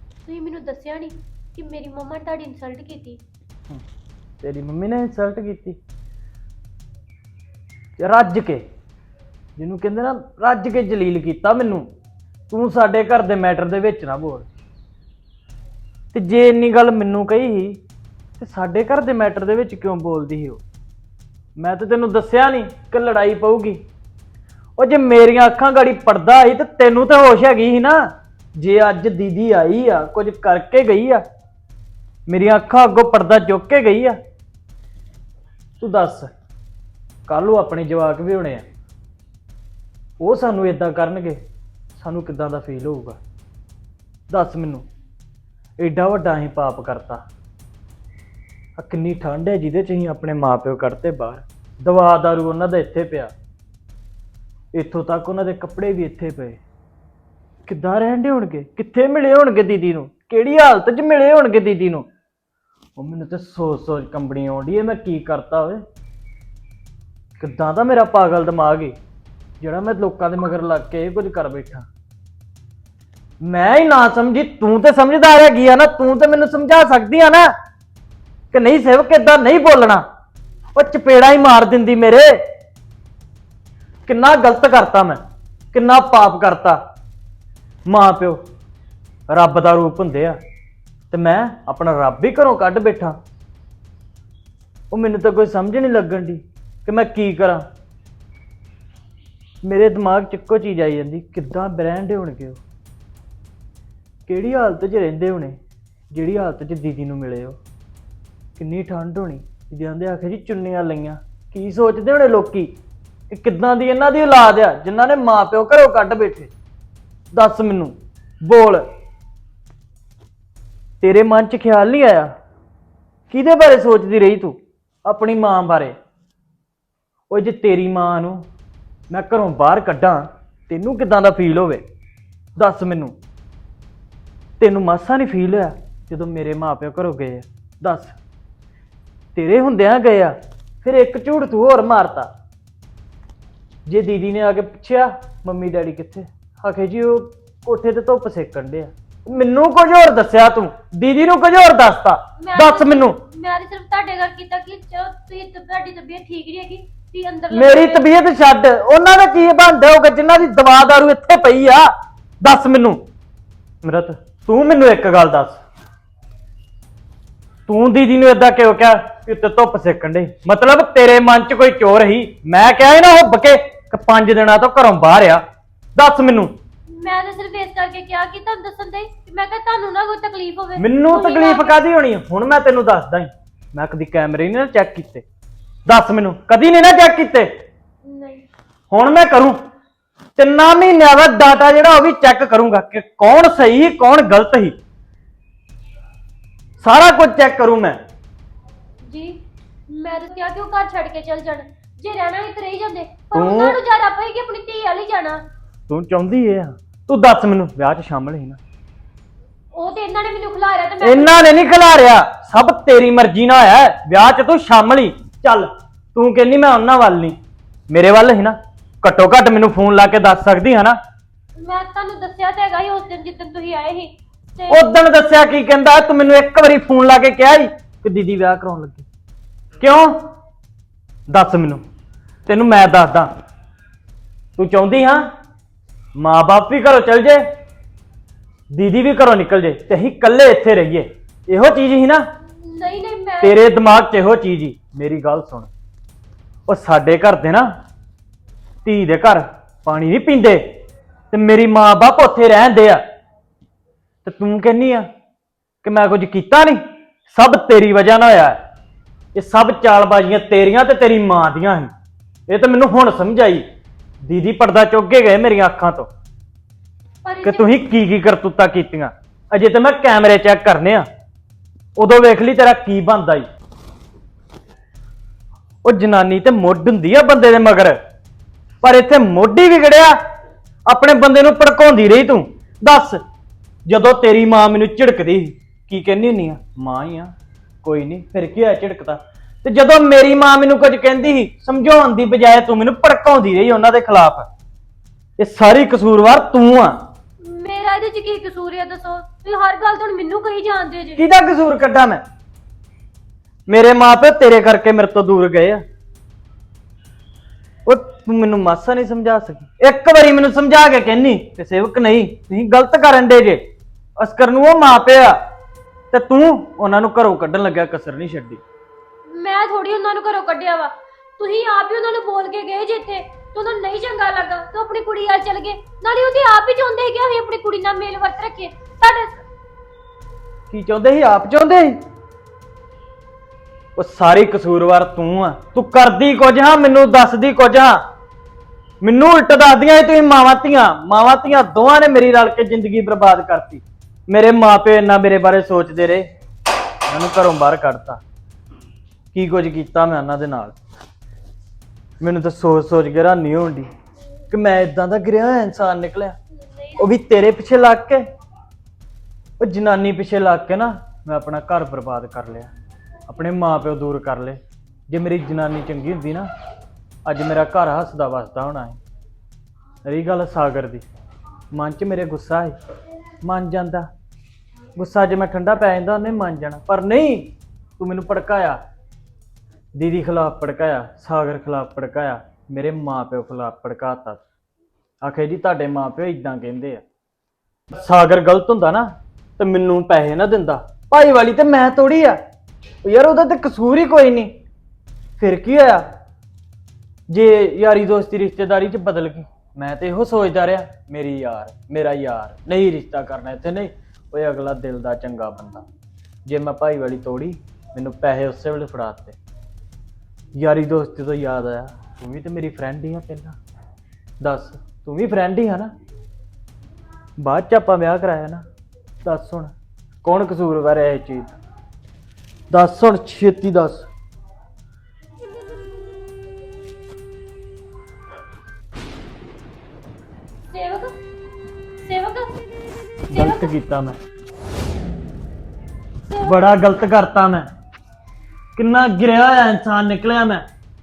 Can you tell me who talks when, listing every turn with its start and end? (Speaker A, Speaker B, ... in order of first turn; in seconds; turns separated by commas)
Speaker A: 0.2-3.2, Speaker B: 4.4-5.8, Speaker B: 8.0-8.7, Speaker B: 9.6-11.9, Speaker B: 12.5-14.5, Speaker B: 16.1-17.8, Speaker B: 18.4-20.6, Speaker B: 21.6-23.8, Speaker B: 24.8-31.2, Speaker B: 32.3-34.2, Speaker B: 35.8-36.3, Speaker B: 37.3-38.6, Speaker B: 40.2-41.4, Speaker B: 42.0-43.2, Speaker B: 44.3-44.9, Speaker B: 45.8-47.2, Speaker B: 48.8-53.3, Speaker B: 54.7-56.6, Speaker B: 57.6-62.1, Speaker B: 63.0-65.8, Speaker B: 67.4-69.0, Speaker B: 69.6-71.9, Speaker B: 73.4-77.5, Speaker B: 78.5-80.0, Speaker B: 80.7-82.4, Speaker B: 84.0-85.2, Speaker B: 85.7-86.8, Speaker B: 87.9-88.4, Speaker B: 89.3-90.4, Speaker B: 91.1-93.2, Speaker B: 94.9-97.7, Speaker B: 99.6-102.6, Speaker B: 104.3-105.6, Speaker B: 106.1-107.6, Speaker B: 108.6-112.8, Speaker B: 113.3-116.5, Speaker B: 117.3-118.8, Speaker B: 121.0-122.3, Speaker B: 123.3-126.0, Speaker B: 127.3-128.5, Speaker B: 129.1-131.8, Speaker B: 132.6-133.2, Speaker B: 134.6-138.2, Speaker B: 139.3-142.3, Speaker B: 143.9-153.2, Speaker A: 152.4-158.3, Speaker B: 157.5-163.1, Speaker B: 163.8-165.6, Speaker B: 167.7-175.4, Speaker B: 175.9-176.5, Speaker A: 176.9-181.8, Speaker B: 180.8-185.2, Speaker B: 185.8-187.5, Speaker A: 188.0-188.5, Speaker B: 188.9-189.6, Speaker B: 190.4-194.8, Speaker B: 196.8-198.0, Speaker A: 199.1-205.4, Speaker B: 203.3-203.8, Speaker B: 205.9-208.6, Speaker A: 209.7-211.5, Speaker B: 211.0-217.4, Speaker B: 217.9-221.0, Speaker A: 221.6-224.9, Speaker B: 224.7-229.1, Speaker B: 229.8-230.1, Speaker B: 231.3-231.8, Speaker B: 232.4-233.3, Speaker B: 234.6-235.3, Speaker B: 236.2-237.4, Speaker B: 238.7-242.2, Speaker A: 242.6-243.7, Speaker B: 243.4-245.7, Speaker B: 246.7-247.7, Speaker B: 248.8-250.8, Speaker B: 251.3-253.0, Speaker B: 254.2-255.1, Speaker B: 255.8-258.6, Speaker B: 259.3-261.9, Speaker B: 262.5-263.6, Speaker B: 264.2-266.1, Speaker A: 267.2-267.8, Speaker B: 267.4-271.1, Speaker B: 271.9-273.5, Speaker B: 275.8-278.0, Speaker B: 278.8-280.2, Speaker B: 280.9-283.2, Speaker B: 283.9-294.5, Speaker B: 295.4-297.0, Speaker A: 297.4-301.3, Speaker B: 301.1-302.2, Speaker B: 303.7-305.8, Speaker B: 307.9-315.4, Speaker B: 316.1-318.6, Speaker A: 319.3-329.4, Speaker B: 330.7-332.0, Speaker B: 333.9-338.0, Speaker B: 339.0-346.3, Speaker B: 347.1-348.2, Speaker B: 349.3-350.7, Speaker B: 352.2-353.9, Speaker B: 354.5-356.4, Speaker B: 356.9-358.2, Speaker B: 359.6-362.7, Speaker B: 363.3-366.5, Speaker B: 367.2-369.0, Speaker B: 370.0-371.0, Speaker B: 371.7-372.8, Speaker B: 373.4-374.1, Speaker B: 374.9-378.8, Speaker B: 379.9-384.4, Speaker B: 385.2-387.0, Speaker B: 387.9-392.4, Speaker B: 393.0-394.5, Speaker B: 395.4-396.1, Speaker B: 397.3-405.8, Speaker B: 406.4-409.4, Speaker B: 410.5-413.6, Speaker B: 414.4-415.9, Speaker B: 417.4-418.6, Speaker B: 419.2-419.7, Speaker B: 420.2-421.5, Speaker B: 422.7-424.1, Speaker A: 430.7-431.1, Speaker A: 432.0-432.5, Speaker B: 433.3-434.1, Speaker A: 433.3-433.7, Speaker A: 436.3-436.6, Speaker B: 436.4-437.7, Speaker B: 438.8-440.6